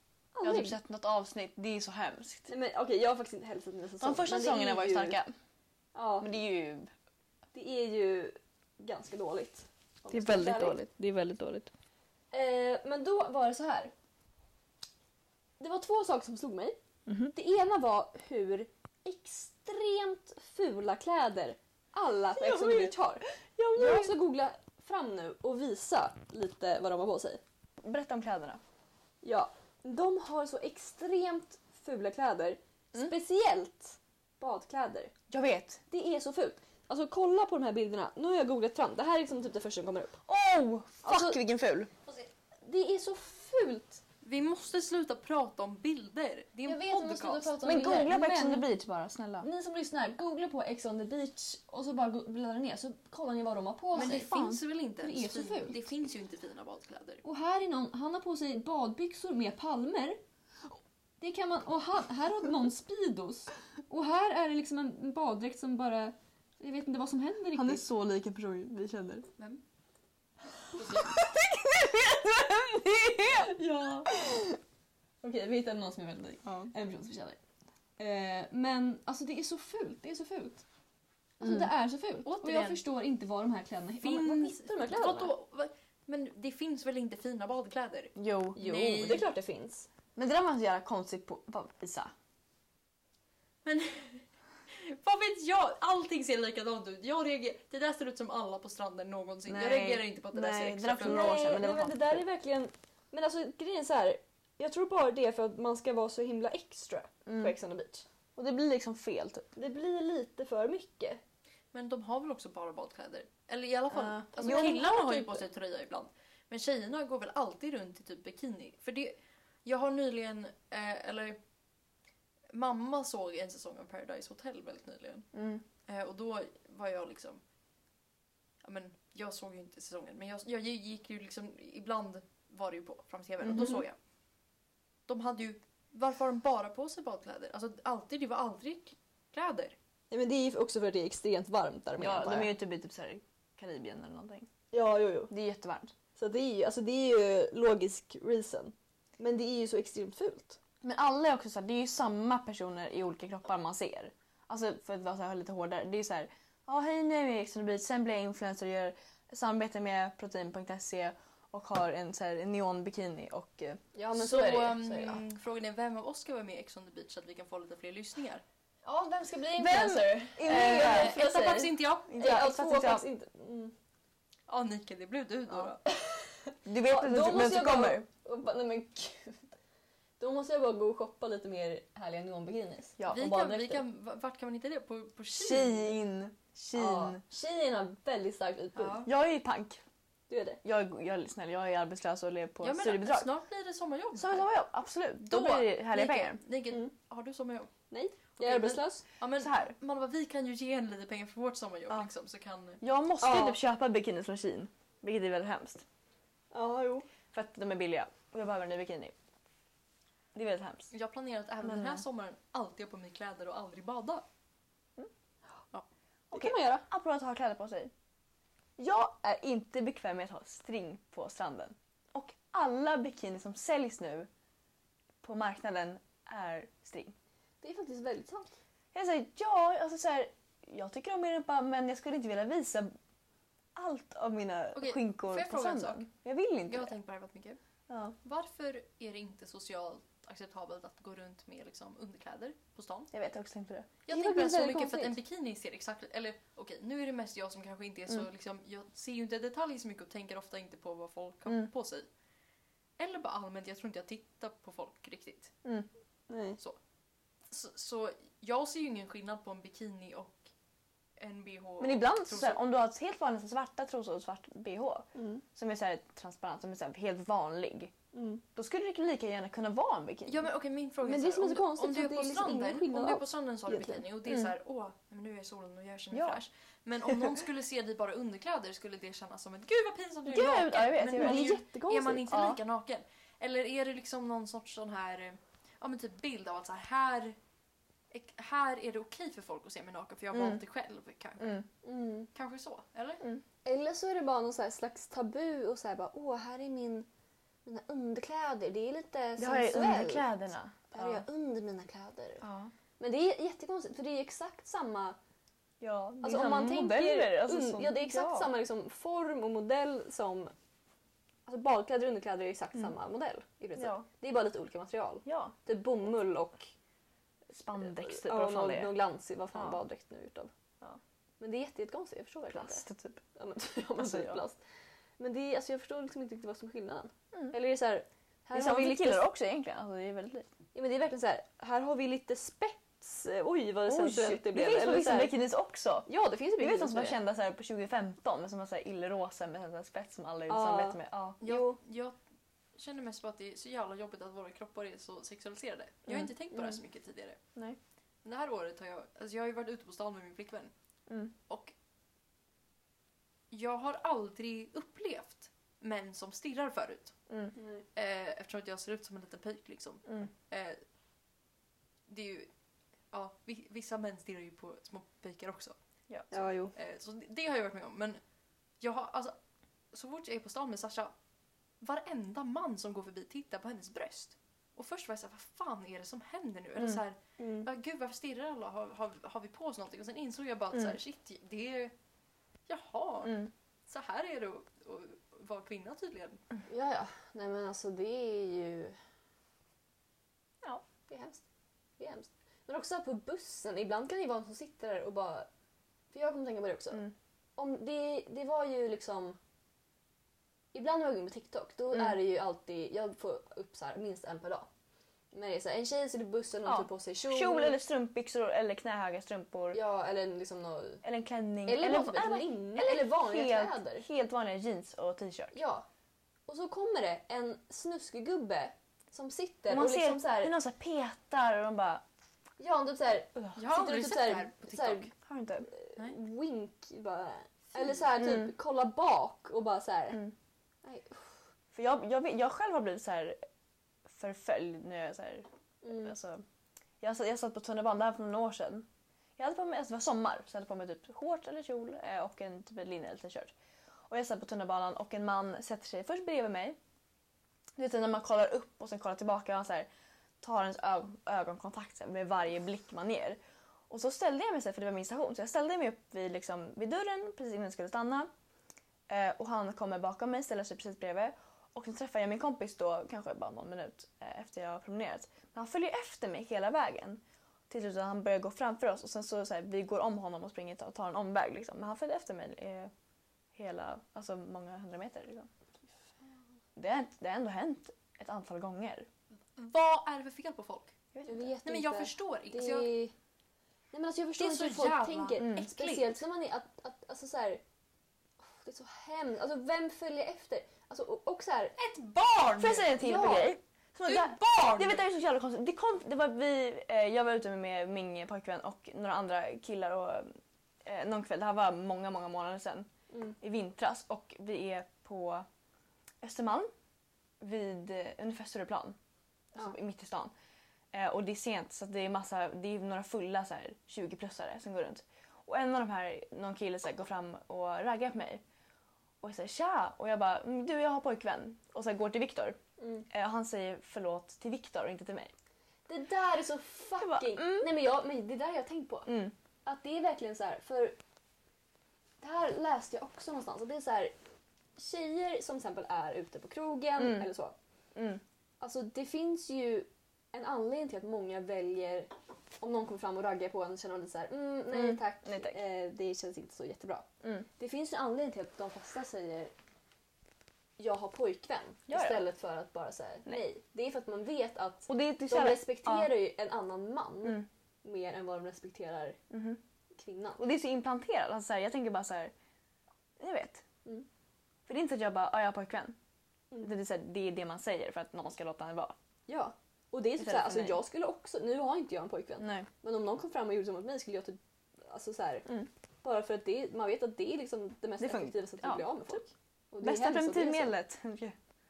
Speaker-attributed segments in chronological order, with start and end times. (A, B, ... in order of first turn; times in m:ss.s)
0:00.3-0:00.8 A
0:00.4-0:02.5 B
0:02.5-0:05.2 A
0:04.0-0:05.3 B
0:05.9-0:06.3 A
0:06.2-0:06.9 B
0:07.5-0:10.8 A
0:10.1-0:11.7 B
0:12.3-0:13.9 A
0:15.6-0:16.8 A
0:17.1-0:17.3 B
0:17.3-0:27.4 A
0:22.3-0:23.0 B
0:23.6-0:24.1 B
0:27.8-0:28.6 B
0:29.2-0:35.1 A
0:35.3-0:35.8 B
0:35.9-0:40.2 A
0:40.3-0:41.9 B
0:41.0-0:41.4 A
0:42.1-0:44.0 A
0:44.2-0:47.6 C
0:46.6-0:48.7 A
0:47.6-0:49.5 B
0:49.4-0:54.4 A
0:53.9-0:57.2 C
0:54.0-0:54.6 B
0:55.0-0:55.9 A
0:57.2-1:00.2 A
1:01.2-1:07.8 A
1:07.5-1:09.3 B
1:10.7-1:11.2 C
1:10.9-1:13.6 B
1:13.4-1:14.1 A
1:14.1-1:14.5 B
1:15.2-1:17.4 A
1:16.4-1:16.7 B
1:18.0-1:20.6 A
1:21.4-1:25.3 A
1:21.4-1:21.7 B
1:22.2-1:22.8 C
1:24.0-1:29.2 C
1:28.2-1:29.2 B
1:28.6-1:29.9 A
1:30.2-1:32.1 B
1:33.6-1:41.4 C
1:39.5-1:42.2 B
1:41.0-1:48.0 A
1:47.2-1:47.5 B
1:48.4-1:49.5 B
1:49.5-1:51.2 A
1:51.7-2:01.4 C
1:53.9-1:55.4 B
1:54.4-1:54.9 A
2:02.5-2:05.3 C
2:05.3-2:05.6 B
2:05.9-2:07.4 C
2:08.6-2:14.0 C
2:13.4-2:13.8 B
2:15.1-2:19.8 C
2:20.1-2:22.5 A
2:22.0-2:24.5 B
2:24.7-2:25.3 A
2:25.3-2:25.9 B
2:26.2-2:30.6 A
2:30.8-2:43.8 B
2:43.9-2:45.2 A
2:44.1-2:48.4 C
2:48.8-2:53.7 A
2:49.6-2:51.2 B
2:50.5-2:52.4 C
2:52.1-2:53.0 B
2:54.5-2:55.8 C
2:55.8-2:59.5 A
2:56.6-2:58.0 B
3:00.2-3:03.8 A
3:03.0-3:03.3 B
3:03.1-3:05.9 C
3:05.3-3:07.2 B
3:06.7-3:09.0 A
3:08.7-3:09.1 C
3:09.0-3:09.8 B
3:10.3-3:10.6 A
3:10.6-3:13.3 B
3:12.6-3:14.4 C
3:14.1-3:16.4 B
3:15.2-3:17.7 C
3:17.9-3:19.0 A
3:18.4-3:22.8 C
3:19.4-3:19.7 B
3:22.8-3:25.8 B
3:23.2-3:23.6 A
3:26.5-3:27.1 A
3:27.3-3:29.1 B
3:30.3-3:30.9 B
3:30.9-3:34.2 C
3:31.6-3:32.0 B
3:36.3-3:36.9 A
3:36.3-3:37.9 B
3:38.8-3:44.3 B
3:45.2-3:47.1 B
3:47.6-3:48.5 A
3:48.9-3:52.9 B
3:53.7-3:56.9 B
3:54.7-3:56.0 C
3:56.7-3:57.6 C
3:57.9-3:58.2 B
3:58.2-4:03.1 C
4:03.1-4:03.9 B
4:04.0-4:12.1 C
4:04.1-4:05.2 A
4:13.0-4:15.5 C
4:16.3-4:16.6 A
4:17.5-4:20.5 C
4:21.2-4:22.6 C
4:21.8-4:27.9 B
4:25.1-4:25.4 A
4:28.1-4:28.4 A
4:28.5-4:30.5 B
4:30.3-4:47.4 C
4:31.0-4:34.0 A
4:36.1-4:36.4 B
4:40.2-4:41.5 B
4:41.1-4:42.3 A
4:42.3-4:42.6 B
4:48.1-4:51.6 C
4:50.3-4:50.6 B
4:51.4-4:51.6 B
4:51.8-4:52.3 A
4:52.3-4:53.2 C
4:53.6-4:57.1 A
4:57.6-5:00.3 A
4:59.4-5:01.2 B
5:00.9-5:02.4 A
5:02.4-5:02.7 B
5:03.0-5:05.2 A
5:05.8-5:08.5 B
5:06.2-5:10.5 A
5:11.5-5:16.7 A
5:13.8-5:14.0 B
5:15.2-5:15.5 B
5:17.5-5:19.0 B
5:17.8-5:20.5 A
5:19.5-5:19.8 B
5:21.4-5:24.6 A
5:22.5-5:23.2 B
5:23.9-5:24.4 B
5:25.2-5:29.3 A
5:28.5-5:30.5 B
5:30.7-5:35.3 A
5:33.9-5:41.4 B
5:36.1-5:37.2 A
5:40.5-5:41.8 A
5:41.4-5:42.2 C
5:42.8-5:47.4 C
5:48.2-5:50.7 C
5:51.1-5:51.3 B
5:53.5-5:57.2 C
5:57.6-5:57.8 A
5:57.9-6:00.8 C
6:02.1-6:02.5 C
6:03.1-6:05.8 C
6:06.3-6:06.7 A
6:06.7-6:08.2 C
6:08.8-6:09.3 C
6:09.9-6:11.1 C
6:11.8-6:21.9 C
6:17.4-6:17.7 A
6:22.7-6:26.4 C
6:23.2-6:23.5 B
6:26.7-6:29.0 A
6:31.1-6:31.4 A
6:32.0-6:35.5 A
6:36.1-6:39.4 A
6:40.7-6:44.7 A
6:45.3-6:47.8 A
6:46.6-6:49.8 B
6:49.7-6:51.0 A
6:51.0-6:55.6 B
6:51.6-6:54.0 A
6:55.5-6:55.8 A
6:56.5-7:00.5 A
6:59.7-7:02.0 B
7:02.6-7:05.1 A
7:03.6-7:05.1 C
7:05.2-7:05.7 B
7:05.6-7:10.2 A
7:08.1-7:08.5 B
7:10.8-7:11.4 A
7:11.7-7:13.4 B
7:14.0-7:16.4 B
7:15.8-7:16.1 A
7:17.0-7:23.5 B
7:24.1-7:26.8 B
7:27.8-7:29.9 B
7:30.4-7:33.4 B
7:33.9-7:38.3 B
7:39.1-7:52.9 B
7:53.5-7:55.5 B
7:56.8-7:59.1 B
7:59.6-8:01.0 C
8:01.1-8:01.6 B
8:01.2-8:03.1 A
8:01.6-8:02.9 C
8:03.9-8:07.6 A
8:04.4-8:06.2 C
8:05.4-8:05.7 B
8:08.4-8:11.8 A
8:11.8-8:13.0 C
8:12.6-8:22.9 B
8:13.0-8:13.5 A
8:14.0-8:15.0 C
8:23.1-8:23.4 A
8:23.4-8:25.4 B
8:26.2-8:26.7 B
8:27.4-8:29.0 B
8:29.5-8:30.3 B
8:30.9-8:38.4 B
8:39.2-8:42.6 B
8:42.8-8:43.0 A
8:43.1-8:45.3 B
8:45.9-8:49.1 A
8:47.0-8:47.7 B
8:49.0-8:49.3 B
8:49.6-8:51.0 A
8:52.2-8:54.1 A
8:54.8-8:57.5 A
8:57.0-8:57.3 B
8:57.9-8:58.2 B
8:58.6-9:09.5 A
9:04.7-9:05.6 B
9:10.8-9:19.2 A
9:11.9-9:12.2 B
9:14.9-9:16.1 B
9:19.3-9:19.6 B
9:20.0-9:20.4 A
9:20.4-9:22.3 B
9:23.2-9:23.6 B
9:24.7-9:26.0 B
9:26.6-9:28.9 B
9:29.3-9:35.5 A
9:30.2-9:30.8 B
9:32.4-9:32.7 B
9:36.0-9:40.7 A
9:38.0-9:39.2 B
9:39.8-9:41.4 B